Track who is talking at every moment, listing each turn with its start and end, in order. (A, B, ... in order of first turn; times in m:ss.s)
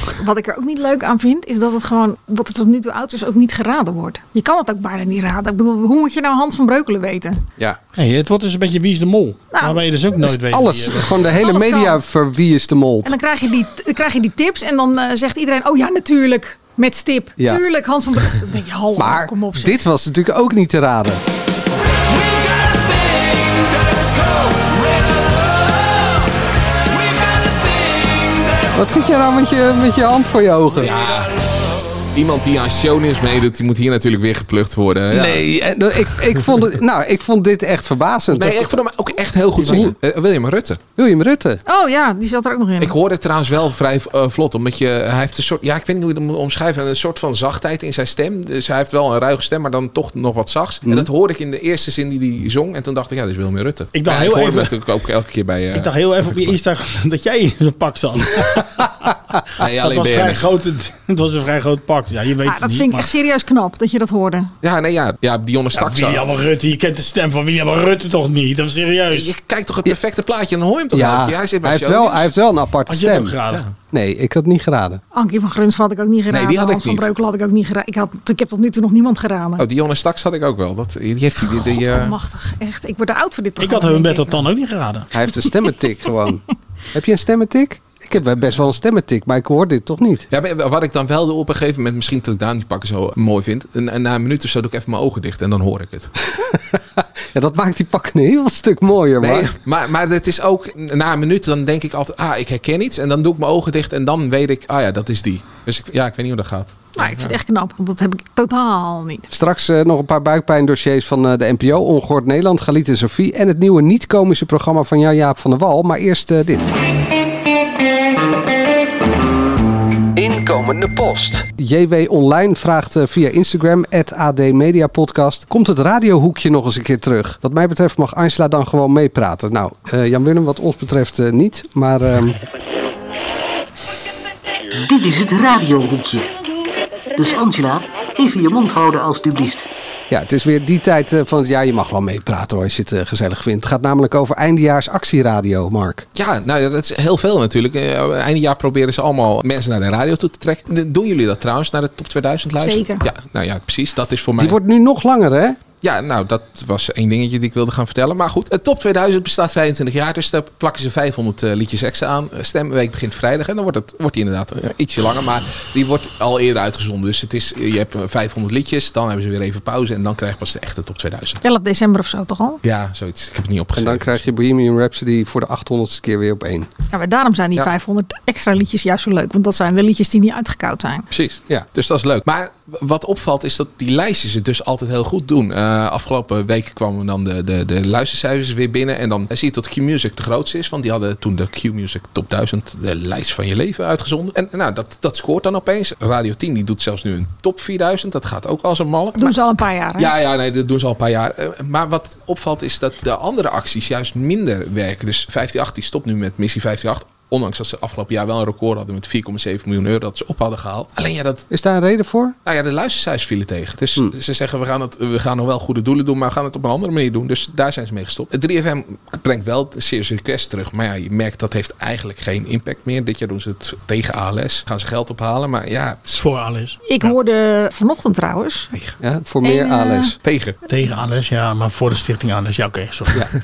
0:00.2-0:07.4 A
0:08.0-0:11.3 B
0:09.5-0:09.8 A
0:10.2-0:13.2 C
0:11.4-0:12.0 A
0:13.0-0:19.8 A
0:17.4-0:17.6 C
0:19.0-0:21.2 C
0:28.7-0:31.2 C
0:30.8-0:31.4 D
0:32.1-0:35.4 D
0:35.1-0:38.7 C
0:38.4-0:40.8 D
0:39.6-0:39.9 C
0:41.0-0:41.6 C
0:41.6-0:43.0 A
0:42.8-0:56.6 D
0:53.9-0:54.7 B
0:55.7-1:03.1 B
0:59.6-1:00.5 D
1:02.4-1:04.5 A
1:04.6-1:06.3 D
1:05.7-1:09.3 B
1:09.1-1:12.3 D
1:10.9-1:13.4 C
1:12.9-1:13.6 B
1:13.9-1:15.0 C
1:15.1-1:19.6 A
1:16.3-1:17.1 D
1:19.6-1:22.2 D
1:21.4-1:24.4 A
1:23.6-1:25.1 B
1:25.1-1:30.3 C
1:30.3-1:36.1 D
1:36.3-1:39.5 C
1:39.2-1:47.4 D
1:47.0-1:49.3 A
1:49.3-1:56.7 C
2:00.1-2:12.4 C
2:14.8-2:16.4 E
2:17.1-2:19.6 E
2:20.1-2:26.1 C
2:26.1-2:34.6 D
2:32.6-2:33.0 A
2:34.4-2:35.6 C
2:35.8-2:51.4 D
2:51.4-2:52.6 A
2:52.6-2:54.2 D
2:53.7-2:56.7 C
2:56.9-3:01.1 A
3:01.1-3:19.4 D
3:19.2-3:20.1 A
3:20.0-3:31.5 D
3:31.5-3:32.3 C
3:32.4-3:46.2 D
3:46.2-3:47.1 B
3:46.8-3:48.7 A
3:48.7-3:49.0 D
3:49.0-3:50.2 C
3:49.4-3:50.1 A
3:50.2-3:50.6 D
3:50.7-3:53.2 B